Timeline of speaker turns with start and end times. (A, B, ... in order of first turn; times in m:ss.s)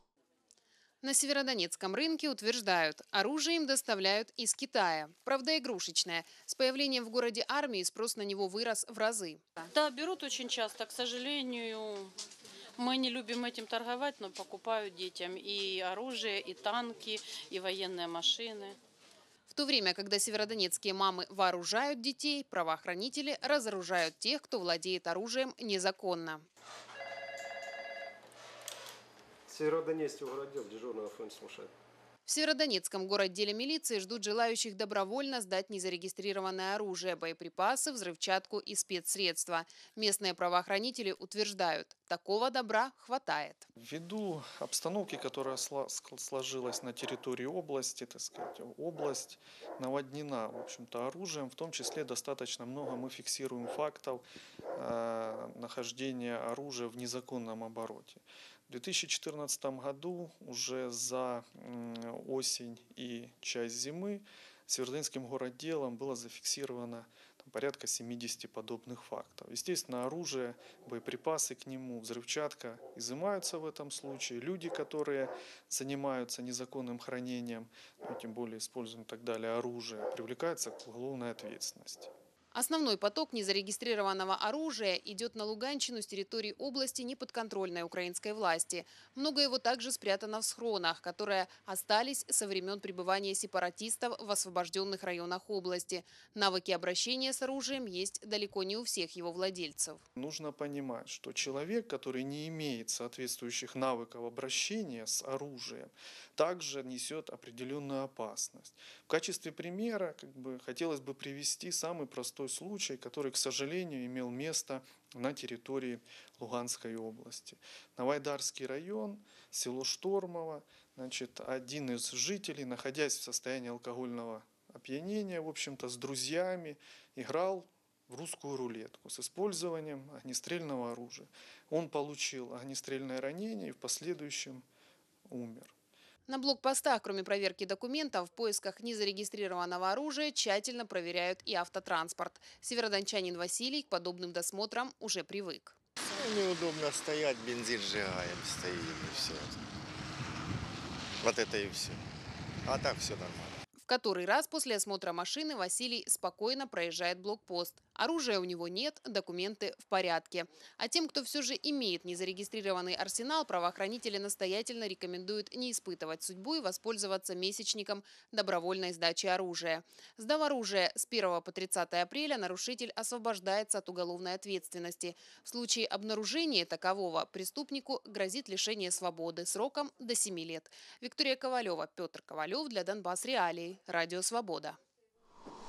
0:01.0-0:09.4 A
0:09.7-0:12.1 B
0:12.8-0:18.8 B
0:19.5-0:26.4 A
0:29.5-0:31.7 C
0:32.3-0:43.7 A
0:43.8-0:54.2 D
0:54.8-1:22.1 D
1:22.5-1:40.0 A
1:40.2-2:14.6 D
2:15.3-2:15.7 D
2:16.3-2:25.8 A
2:26.2-2:29.5 E
2:31.2-2:32.0 E
2:32.7-2:33.5 E
2:33.8-3:04.8 A